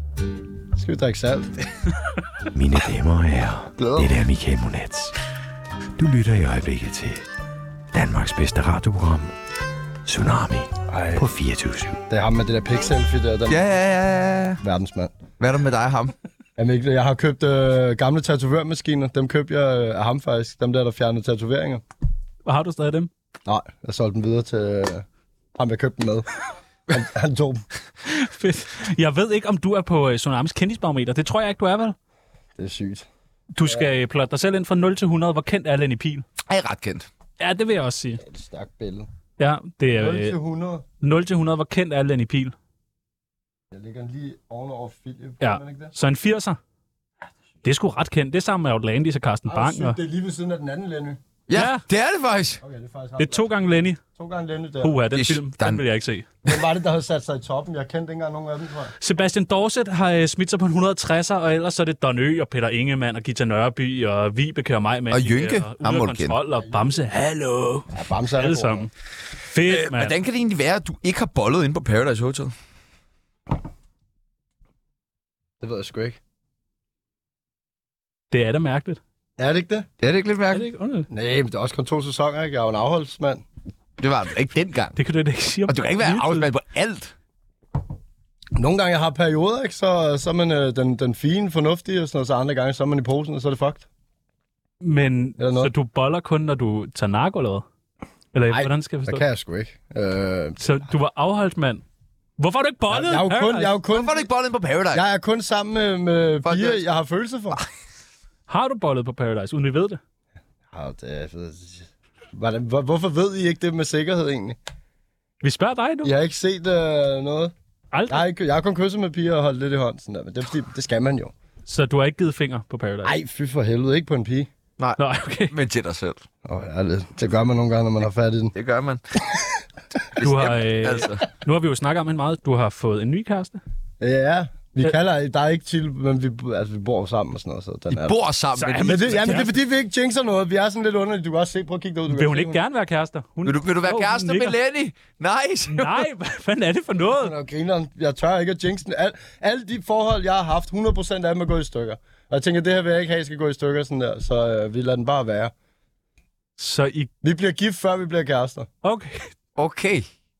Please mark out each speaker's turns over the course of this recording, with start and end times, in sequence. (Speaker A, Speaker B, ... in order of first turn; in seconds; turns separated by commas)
Speaker A: 0.7-1.6, Speaker B: 2.5-5.1, Speaker C: 3.8-4.1, Speaker B: 6.0-7.2, Speaker B: 7.9-9.3, Speaker B: 10.1-12.0, Speaker A: 10.9-11.3, Speaker A: 12.1-13.6, Speaker C: 13.5-14.6, Speaker A: 14.6-15.1, Speaker C: 15.4-16.1, Speaker A: 16.6-21.8, Speaker D: 22.4-23.1, Speaker A: 23.4-26.3, Speaker A: 26.9-27.6, Speaker D: 28.0-31.9, Speaker A: 32.5-33.1, Speaker D: 33.5-36.2, Speaker C: 36.5-37.1, Speaker D: 37.4-38.2, Speaker A: 38.2-39.1, Speaker D: 39.4-40.4, Speaker A: 39.9-40.8, Speaker D: 41.0-42.5, Speaker A: 43.7-45.9, Speaker D: 45.4-46.6, Speaker D: 47.6-50.0, Speaker A: 49.5-51.2, Speaker C: 51.5-52.6, Speaker D: 51.5-51.8, Speaker A: 52.6-53.5, Speaker D: 53.2-54.0, Speaker A: 54.1-55.0, Speaker D: 54.8-56.2, Speaker C: 55.1-55.8, Speaker A: 56.4-58.9, Speaker D: 59.0-68.9, Speaker C: 65.1-66.4, Speaker A: 67.9-68.9, Speaker D: 69.5-70.1, Speaker C: 69.6-72.5, Speaker A: 75.6-76.2, Speaker D: 78.3-79.0, Speaker A: 79.4-79.9, Speaker C: 80.0-80.7, Speaker D: 80.5-81.1, Speaker A: 81.1-83.4, Speaker C: 84.0-85.0, Speaker D: 85.0-86.5, Speaker C: 85.7-87.1, Speaker A: 88.5-93.8, Speaker D: 94.8-97.6, Speaker A: 95.4-95.7, Speaker D: 98.3-99.2, Speaker A: 98.5-100.7, Speaker D: 100.6-101.8, Speaker D: 102.4-103.8, Speaker A: 102.9-104.3, Speaker C: 103.9-105.0, Speaker A: 104.9-107.6, Speaker C: 106.4-106.8, Speaker D: 108.5-110.0, Speaker A: 110.7-114.6, Speaker D: 115.4-116.1, Speaker A: 116.0-117.5, Speaker D: 117.9-118.3, Speaker A: 118.1-121.3, Speaker D: 121.7-123.1, Speaker A: 123.0-124.5, Speaker C: 124.8-126.2, Speaker D: 125.0-125.5, Speaker A: 126.4-128.5, Speaker C: 128.5-129.0, Speaker C: 130.1-131.2, Speaker D: 130.2-133.6, Speaker A: 134.0-138.2, Speaker C: 137.9-139.5, Speaker D: 138.6-139.5, Speaker A: 138.8-142.6, Speaker D: 142.1-144.5, Speaker C: 143.4-146.1, Speaker D: 145.7-147.3, Speaker A: 147.1-155.5, Speaker D: 156.6-157.1, Speaker A: 157.2-158.7, Speaker D: 158.8-159.3, Speaker C: 159.6-160.1